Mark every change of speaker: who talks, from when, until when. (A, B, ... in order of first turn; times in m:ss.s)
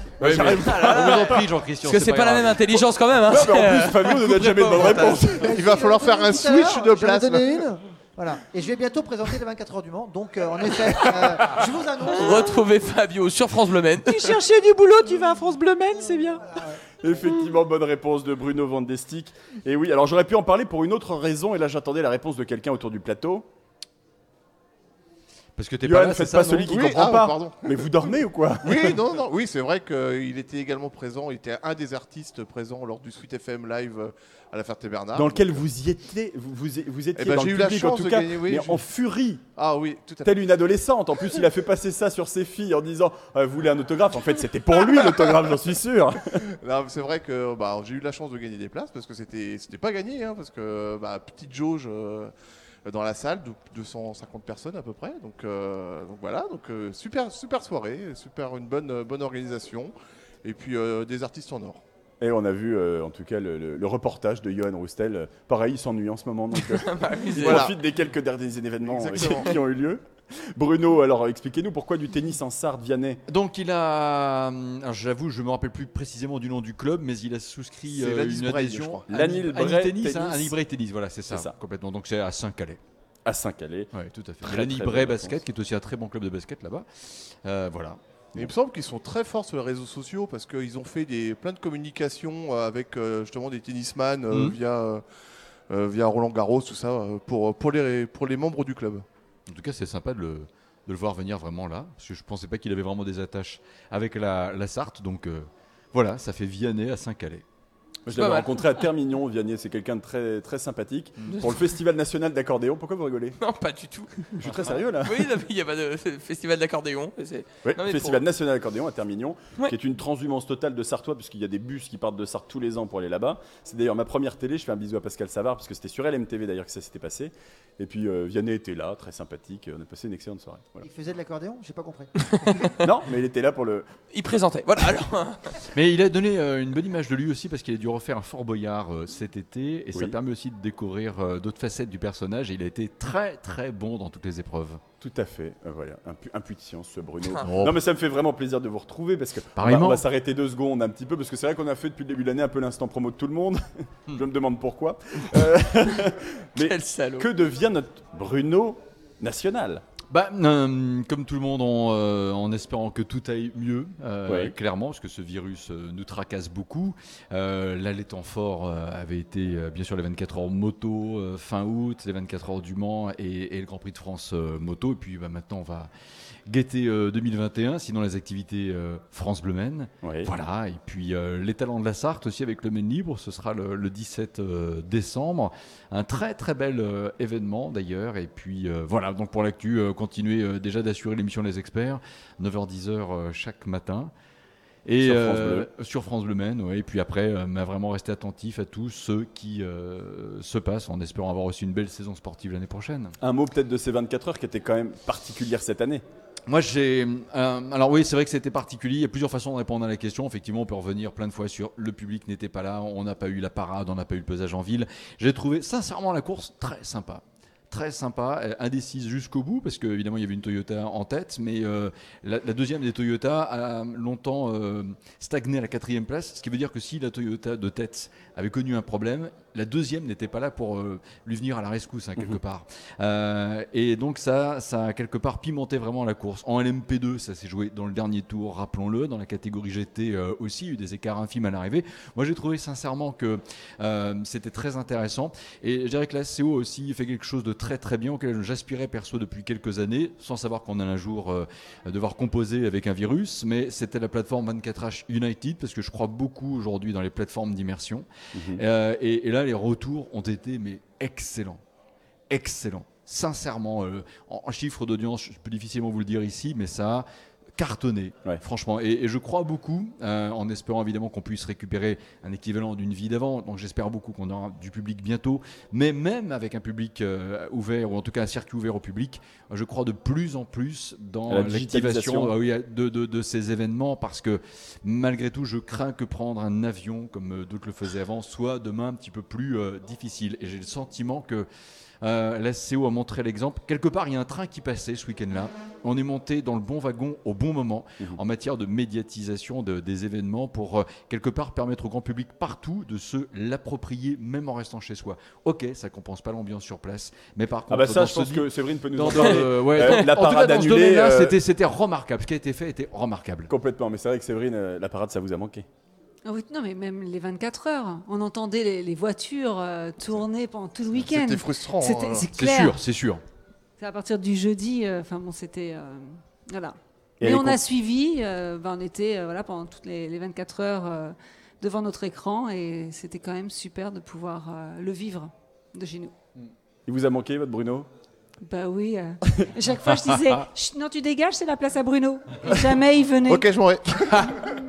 0:00.2-0:01.4 A
0:00.2-0:02.7 B
0:00.5-0:05.4 C
0:03.2-0:05.5 A
0:05.2-0:12.6 D
0:05.4-0:07.6 E
0:12.0-0:14.4 C
0:14.0-0:16.5 F
0:16.4-0:16.8 D
0:17.0-0:23.4 A
0:25.6-0:26.8 B
0:25.8-0:29.0 A
0:26.6-0:27.9 E
0:28.6-0:35.6 E
0:35.1-0:39.4 A
0:37.2-0:38.8 E
0:39.6-0:40.4 E
0:40.2-0:46.5 A
0:46.4-0:52.3 E
0:52.8-1:01.8 E
1:02.2-1:13.2 A
1:06.6-1:07.7 C
1:07.4-1:07.8 E
1:08.8-1:09.5 E
1:13.3-1:22.8 B
1:17.9-1:19.0 E
1:19.1-1:20.5 A
1:23.2-1:25.4 A
1:23.9-1:28.0 B
1:28.4-1:35.0 E
1:34.3-1:34.6 B
1:35.7-1:39.0 E
1:39.5-1:47.4 B
1:48.0-1:53.4 A
1:48.1-1:48.7 C
1:53.4-1:54.4 C
1:54.4-1:55.3 A
1:55.0-1:58.2 C
1:57.6-2:10.9 A
2:10.8-2:12.1 D
2:12.2-2:12.8 C
2:12.8-2:13.9 A
2:14.1-2:15.6 C
2:15.7-2:24.8 B
2:25.0-2:39.8 A
2:27.4-2:27.8 B
2:29.6-2:30.0 B
2:36.6-2:37.3 C
2:40.1-2:55.9 B
2:44.3-2:44.5 A
2:56.5-3:14.1 B
3:00.0-3:00.3 A
3:14.8-3:23.2 B
3:15.0-3:15.7 A
3:23.2-3:26.0 A
3:26.5-4:21.6 B
4:18.3-4:18.6 A
4:22.3-4:27.0 B
4:27.6-4:51.5 B
4:41.3-4:42.3 A
4:52.0-5:13.5 B
5:07.7-5:11.4 A
5:13.5-5:15.6 A
5:16.2-5:22.8 G
5:20.9-5:22.3 E
5:22.3-5:23.2 B
5:23.8-5:36.1 G
5:27.2-5:27.6 A
5:36.9-5:37.9 A
5:38.4-5:43.4 G
5:43.2-5:44.5 E